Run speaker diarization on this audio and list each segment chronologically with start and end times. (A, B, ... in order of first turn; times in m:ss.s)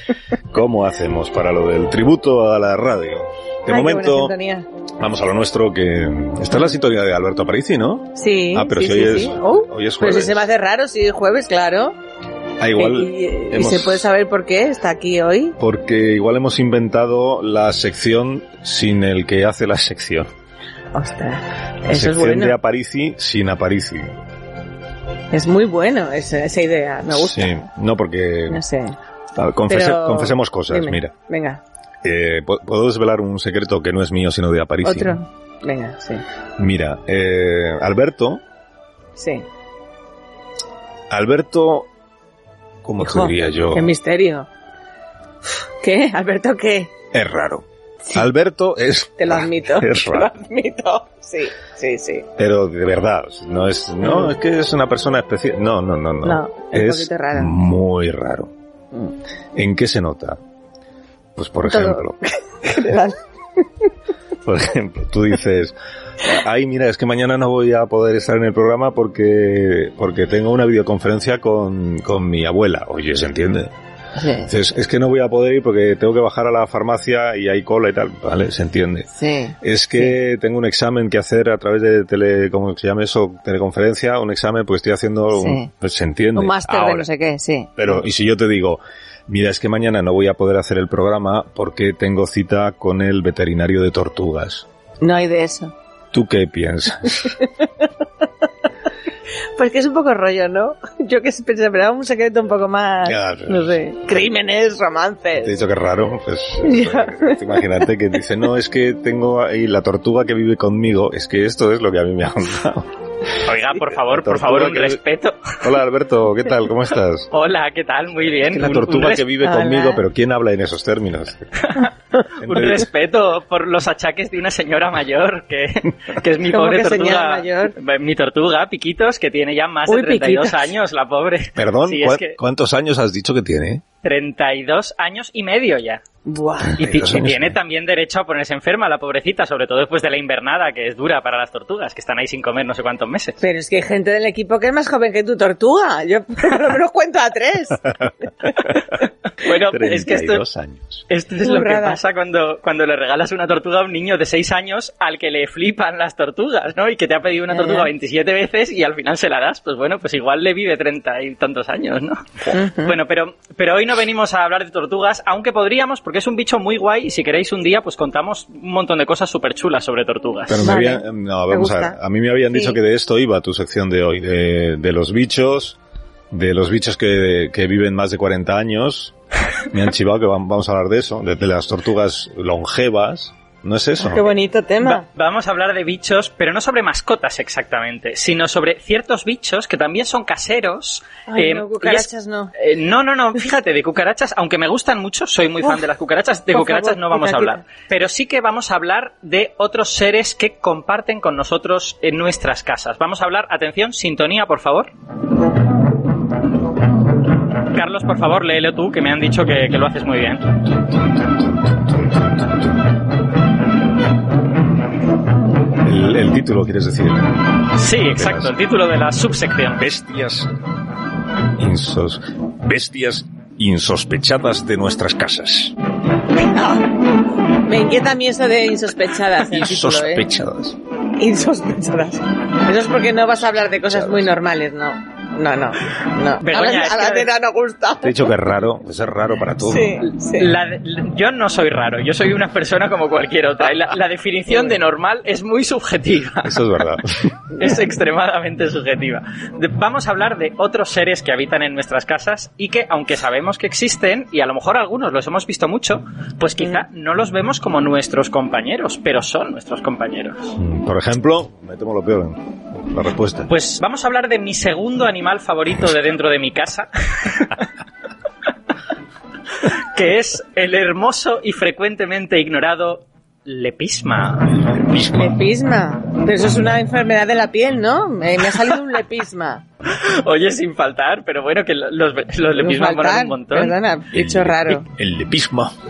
0:00.5-0:04.3 A
0:03.7-0:04.7 B
0:05.0-0:10.5 A
0:08.2-0:12.0 B
0:12.6-0:14.1 A
0:12.8-0:15.6 B
0:15.6-0:20.3 A
0:20.9-0:22.5 B
0:21.9-0:24.1 A
0:25.3-0:27.6 B
0:27.1-0:28.6 A
0:28.5-0:29.0 B
0:29.4-0:31.1 A
0:29.7-0:31.6 B
0:32.0-0:35.2 A
0:34.8-0:36.2 B
0:36.6-0:38.4 A
0:39.2-0:39.4 B
0:41.1-0:41.9 A
0:42.8-0:43.9 A
0:43.0-0:44.5 B
0:45.8-0:46.9 B
0:47.1-0:50.3 A
0:49.2-0:52.2 B
0:52.4-0:58.5 A
0:54.0-0:54.3 B
0:56.2-0:57.5 B
0:59.5-1:00.4 A
1:01.4-1:02.2 A
1:01.6-1:03.2 B
1:04.4-1:13.7 A
1:14.2-1:14.5 B
1:14.4-1:27.1 A
1:19.2-1:20.1 B
1:25.4-1:25.7 B
1:26.3-1:28.0 B
1:27.8-1:34.6 A
1:35.0-1:35.7 B
1:36.1-1:37.4 A
1:39.6-1:45.6 B
1:43.0-1:44.2 A
1:45.4-1:52.9 A
1:46.6-1:47.4 B
1:53.4-1:55.6 C
1:53.7-1:55.0 A
1:55.6-1:57.3 A
1:57.3-1:59.3 C
1:58.3-2:01.5 A
1:59.4-2:00.0 B
2:01.6-2:01.9 C
2:02.4-2:02.9 A
2:02.4-2:12.4 C
2:06.5-2:07.7 B
2:09.9-2:10.7 B
2:11.6-2:13.8 A
2:14.0-2:16.0 C
2:16.2-2:16.8 B
2:16.7-2:17.5 A
2:16.8-2:23.4 C
2:23.4-2:27.9 B
2:28.4-2:28.7 A
2:29.4-2:30.4 C
2:29.7-2:31.0 A
2:31.1-2:50.6 C
2:31.4-2:32.0 B
2:37.5-2:37.9 B
2:42.5-2:43.0 B
2:50.5-2:55.8 A
2:50.6-2:52.0 B
2:52.5-2:52.8 B
2:56.3-2:59.1 A
2:59.7-3:04.3 A
3:04.0-3:05.0 B
3:04.8-3:24.9 C
3:11.3-3:12.5 B
3:16.5-3:17.7 B
3:27.7-3:30.4 C
3:31.1-3:32.7 A
3:35.8-3:37.4 A
3:37.7-3:39.8 C
3:38.1-3:38.5 A
3:39.8-3:40.5 A
3:41.6-3:45.8 A
3:46.4-3:47.0 B
3:47.6-3:50.2 B
3:49.4-3:50.8 A
3:51.2-3:58.2 B
3:53.9-3:54.2 A
3:56.4-3:57.3 C
3:58.0-4:00.0 A
3:59.6-4:00.5 B
4:00.1-4:06.6 C
4:04.5-4:04.8 B
4:06.4-4:07.3 A
4:07.6-4:20.6 C
4:07.6-4:07.8 B
4:20.6-4:23.5 A
4:23.5-4:27.6 C
4:29.9-4:34.6 C
4:34.6-4:35.4 A
4:35.1-4:39.6 B
4:39.9-4:43.8 C
4:42.6-4:44.9 B
4:44.1-4:45.7 A